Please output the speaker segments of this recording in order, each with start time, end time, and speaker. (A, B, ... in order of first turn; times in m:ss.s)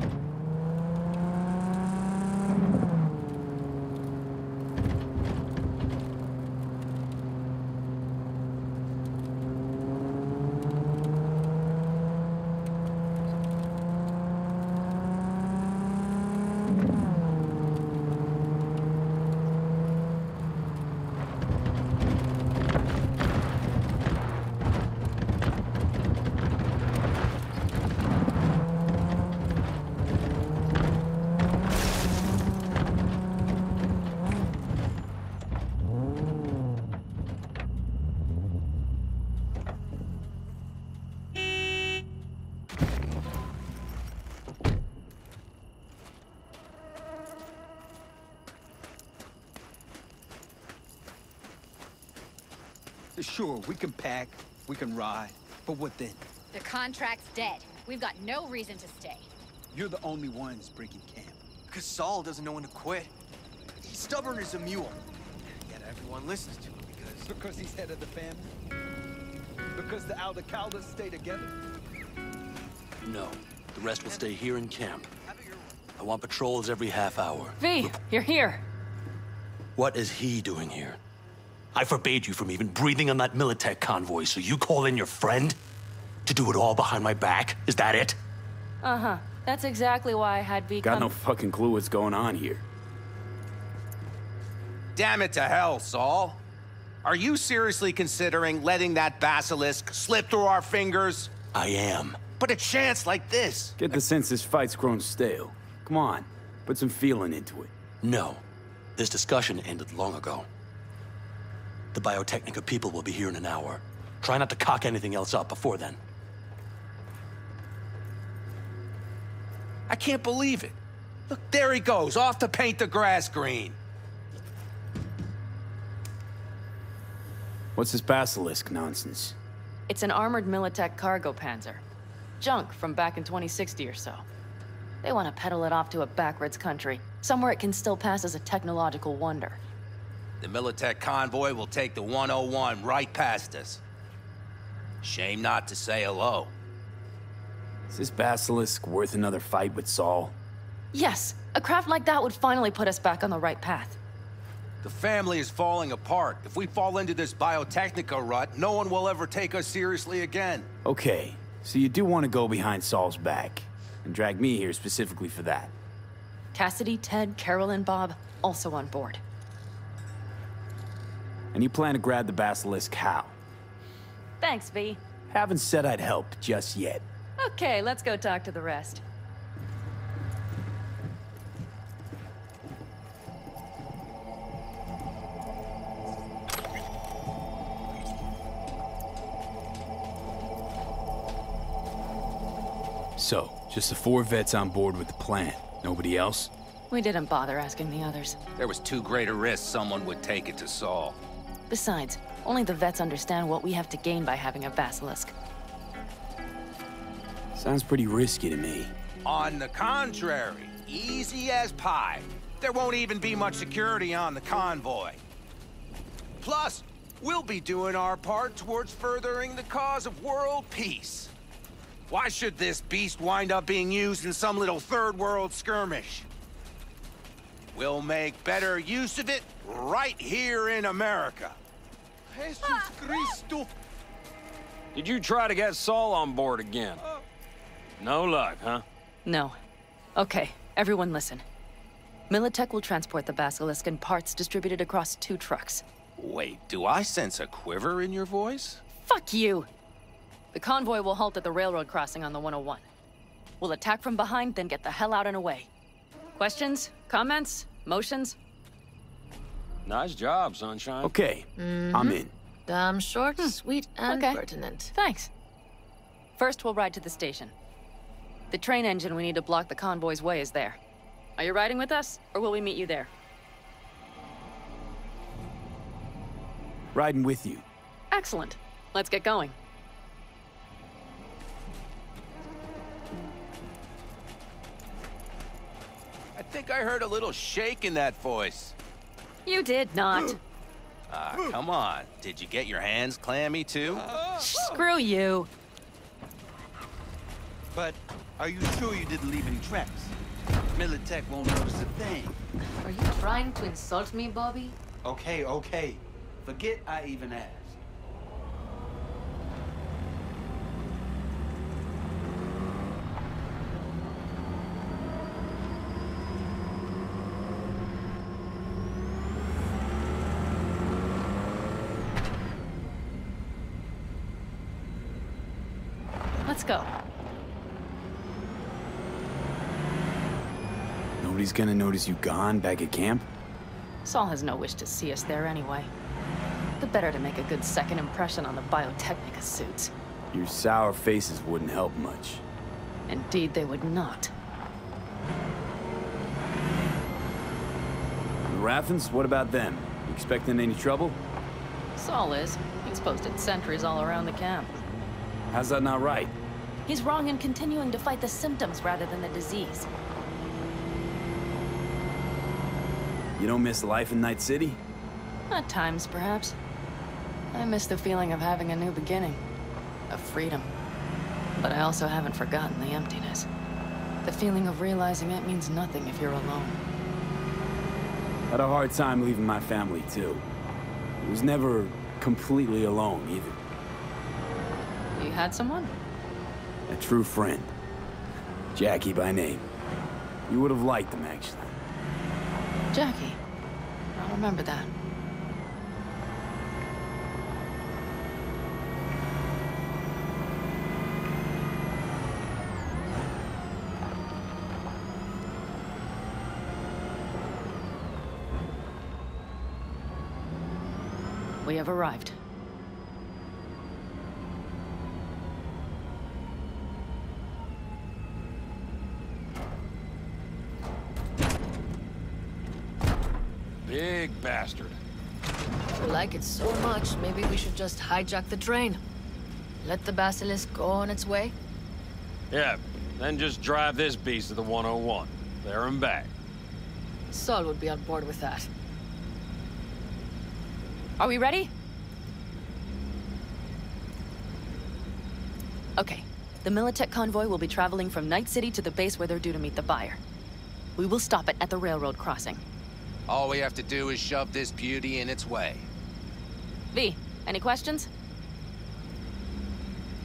0:53.2-0:56.2 A
0:56.5-0:59.3 B
0:59.7-1:01.4 A
1:01.7-1:03.1 C
1:03.8-1:05.0 A
1:05.7-1:07.3 C
1:07.2-1:08.5 A
1:09.8-1:11.5 A
1:13.0-1:15.1 D
1:15.3-1:15.6 C
1:16.0-1:17.9 D
1:17.6-1:18.6 E
1:19.8-1:21.0 D
1:21.7-1:25.6 D
1:26.2-1:28.2 D
1:28.8-1:31.1 E
1:30.8-1:32.6 F
1:35.0-1:36.4 G
1:37.0-1:41.3 G
1:41.5-1:42.2 D
1:42.3-1:43.8 G
1:43.8-1:47.7 F
1:48.0-1:48.4 D
1:49.0-1:50.5 D
1:51.9-1:56.0 D
1:59.9-2:00.8 G
2:01.3-2:03.8 G
2:07.8-2:09.4 F
2:09.9-2:11.8 E
2:12.4-2:14.2 E
2:15.0-2:19.6 E
2:20.4-2:23.8 G
2:25.0-2:26.5 G
2:27.9-2:30.4 F
2:30.9-2:34.0 E
2:34.8-2:40.7 G
2:40.8-2:45.7 F
2:46.5-2:49.2 E
2:51.5-2:53.4 F
2:54.4-2:55.0 E
2:55.3-2:57.0 F
2:57.4-2:59.0 E
3:13.2-3:16.5 F
3:16.9-3:18.4 E
3:18.6-3:21.2 G
3:21.7-3:25.3 E
3:27.5-3:28.9 F
3:29.2-3:35.2 G
3:36.4-3:41.3 G
3:42.1-3:46.3 G
3:47.7-3:51.6 G
3:52.3-3:53.7 A
3:54.9-3:57.0 H
3:58.0-3:58.8 H
3:59.3-3:59.6 E
4:00.2-4:01.4 E
4:02.3-4:05.8 E
4:06.2-4:08.8 G
4:09.1-4:09.7 E
4:10.5-4:12.8 E
4:13.6-4:15.7 E
4:16.4-4:18.4 E
4:19.9-4:21.1 H
4:21.0-4:22.3 F
4:21.6-4:24.9 I
4:24.1-4:24.4 E
4:24.9-4:25.3 E
4:26.4-4:27.5 E
4:28.5-4:30.8 E
4:31.4-4:33.1 E
4:36.9-4:37.6 F
4:38.1-4:39.6 E
4:46.4-4:48.8 G
4:49.5-4:50.4 E
4:51.1-4:54.0 G
4:54.1-4:54.8 A
4:54.5-4:55.5 E
4:57.7-5:00.1 A
5:00.8-5:02.4 A
5:02.8-5:04.8 I
5:05.0-5:07.8 A
5:26.5-5:26.9 E
5:31.2-5:33.3 F
5:34.0-5:35.9 E
5:36.8-5:39.9 E
5:40.3-5:42.4 F
5:43.1-5:44.3 E
5:48.4-5:51.2 F
5:52.0-5:54.8 E
5:55.5-5:56.3 F
5:56.9-5:59.9 E
6:03.4-6:04.8 F
6:05.5-6:06.6 E
6:07.5-6:09.4 E
6:10.1-6:10.7 E
6:11.6-6:13.5 E
6:14.2-6:16.8 E
6:18.5-6:20.5 F
6:21.2-6:23.6 F
6:25.2-6:25.9 E
6:26.9-6:27.7 F
6:28.7-6:29.7 F
6:30.5-6:31.8 F
6:32.9-6:33.4 E
6:34.2-6:34.9 E
6:51.6-6:52.4 E
7:03.8-7:05.0 H
7:06.0-7:09.0 I
7:09.8-7:11.6 I
7:12.5-7:16.3 H
7:17.3-7:18.7 I
7:21.2-7:21.7 E
7:26.0-7:30.2 E
7:31.0-7:32.6 E
7:33.3-7:35.9 G
7:36.9-7:38.1 E